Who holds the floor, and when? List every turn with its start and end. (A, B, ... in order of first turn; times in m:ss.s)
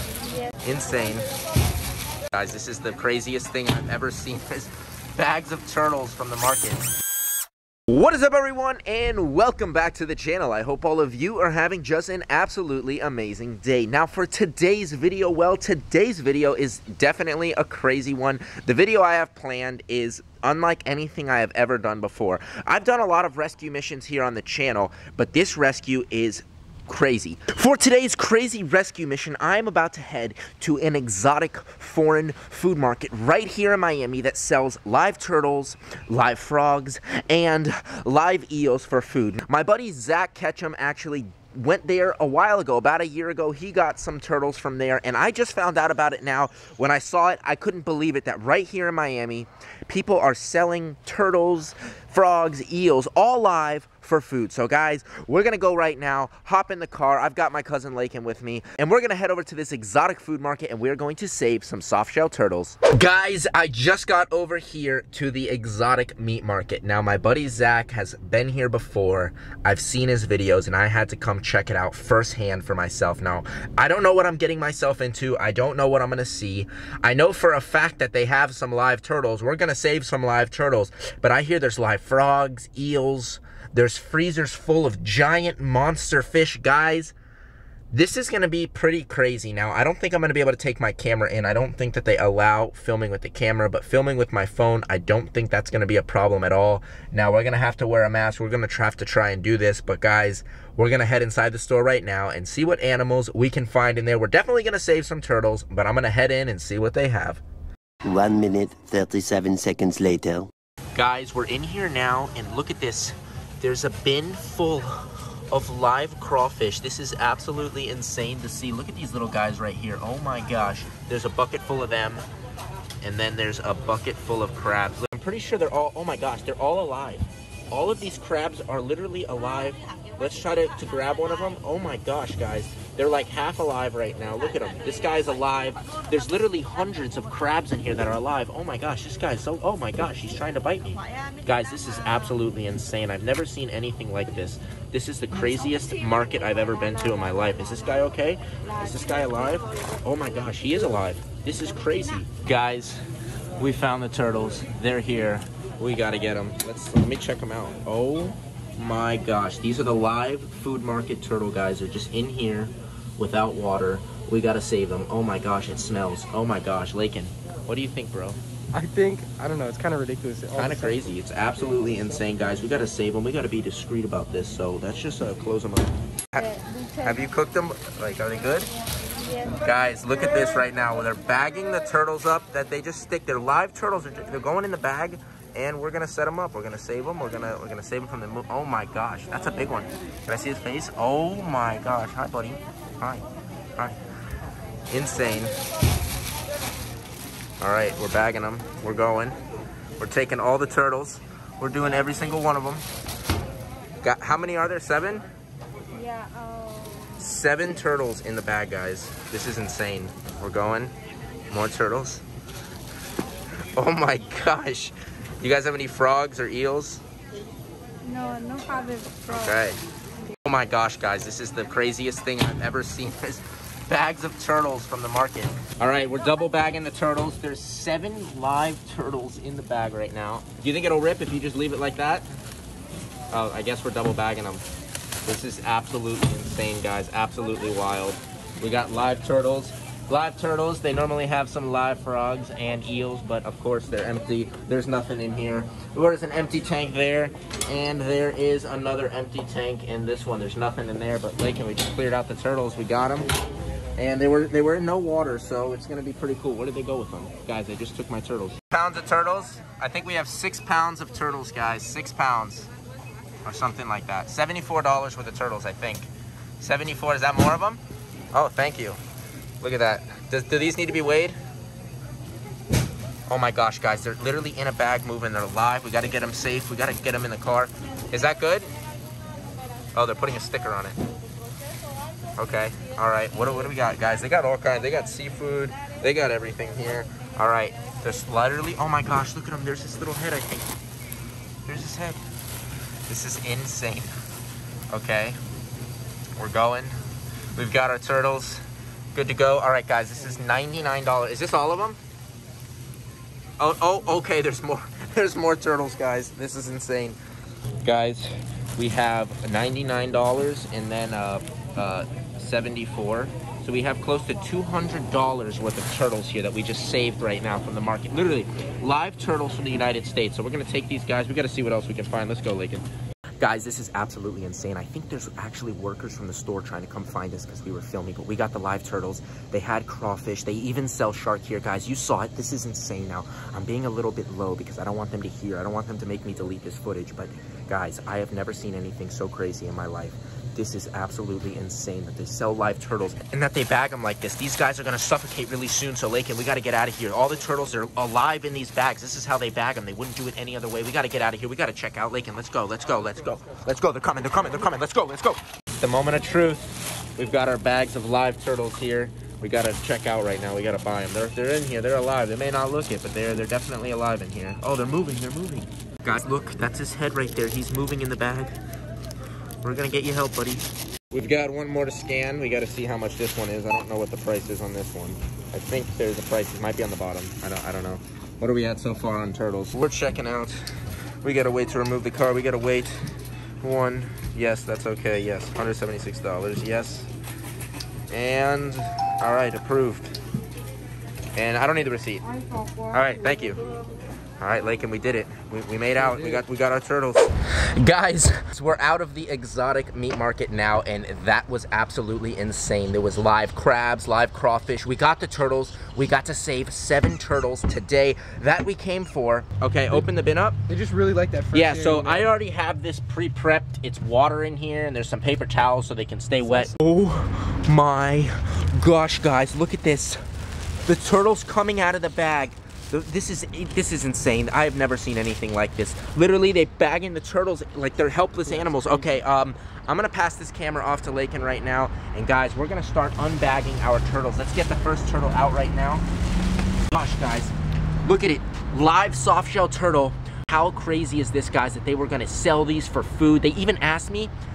0:00.6-0:01.3 A
0:02.3-0:06.9 A
0:07.9-1:27.1 A
1:27.9-1:47.4 A
1:48.0-1:50.5 B
1:51.0-2:02.3 A
2:03.0-2:33.0 A
2:33.6-2:48.4 A
2:48.7-2:51.0 C
2:50.6-2:58.7 A
2:56.6-2:56.9 D
2:59.4-3:13.2 A
3:14.9-3:15.5 A
3:17.6-3:19.4 A
3:20.0-3:22.8 A
3:24.0-3:25.2 A
3:26.0-3:27.0 D
3:27.2-3:30.9 A
3:31.5-3:32.2 A
3:33.8-3:37.0 A
3:38.0-3:39.3 D
3:39.3-3:39.8 A
3:40.4-3:52.3 A
3:53.3-3:54.6 A
3:55.2-4:13.3 A
4:14.0-4:22.7 A
4:23.4-4:26.1 A
4:26.6-4:27.8 A
4:28.3-4:29.0 A
4:29.6-4:31.4 A
4:33.3-4:38.7 A
4:39.9-4:41.0 A
4:42.4-4:50.7 A
4:51.7-4:52.2 A
4:53.1-4:54.1 A
4:54.9-4:55.4 A
4:56.4-4:57.0 A
4:57.6-4:58.6 A
4:59.1-5:02.0 A
5:03.6-5:07.2 A
5:07.8-5:22.8 A
5:23.4-6:08.5 A
6:09.6-6:20.6 A
6:21.2-6:23.0 A
6:23.6-6:27.1 A
6:28.1-6:30.1 A
6:31.4-6:32.3 A
6:32.9-6:33.6 A
6:34.4-6:50.6 A
6:50.7-6:52.3 C
6:51.5-7:00.2 A
6:56.5-6:56.7 C
7:00.8-7:16.0 A
7:08.5-7:09.1 C
7:16.9-7:24.3 A